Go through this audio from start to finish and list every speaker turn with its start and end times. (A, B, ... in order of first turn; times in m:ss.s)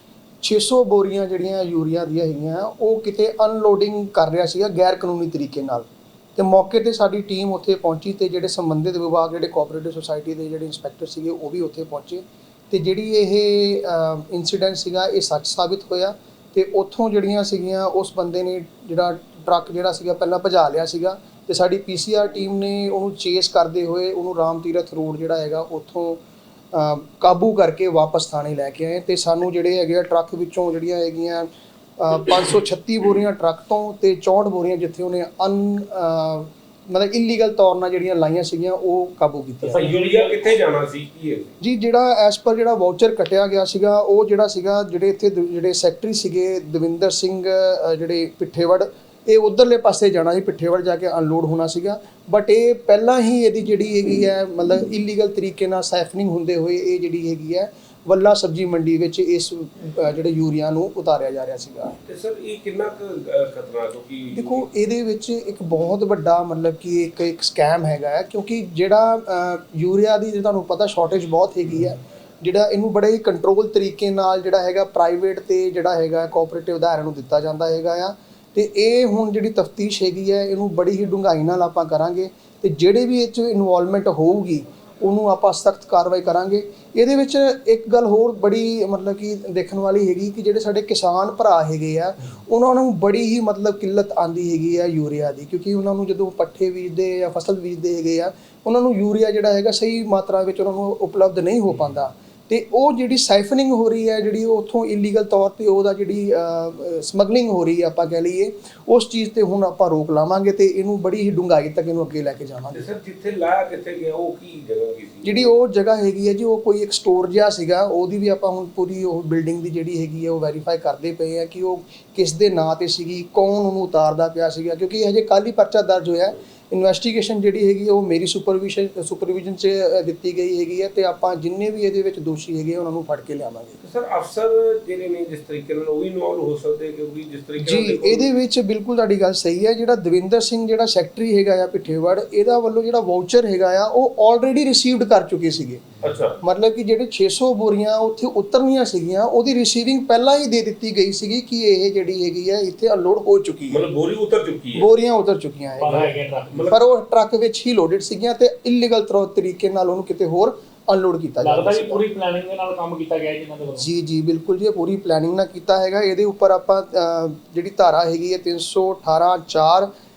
0:00.4-0:39.9 A
0:39.6-0:41.6 B
0:39.8-0:40.4 C
0:41.6-1:02.0 A
1:02.0-1:04.7 B
1:04.3-1:52.8 A
1:52.7-1:55.5 B
1:55.2-2:13.8 A
2:13.8-2:18.3 B
2:17.6-2:25.8 A
2:26.0-2:26.4 B
2:26.4-2:33.8 A
2:33.7-2:34.9 B
2:34.7-2:42.0 A
2:35.8-2:36.7 C
2:36.5-2:36.8 B
2:41.4-2:43.9 C
2:43.7-2:49.9 A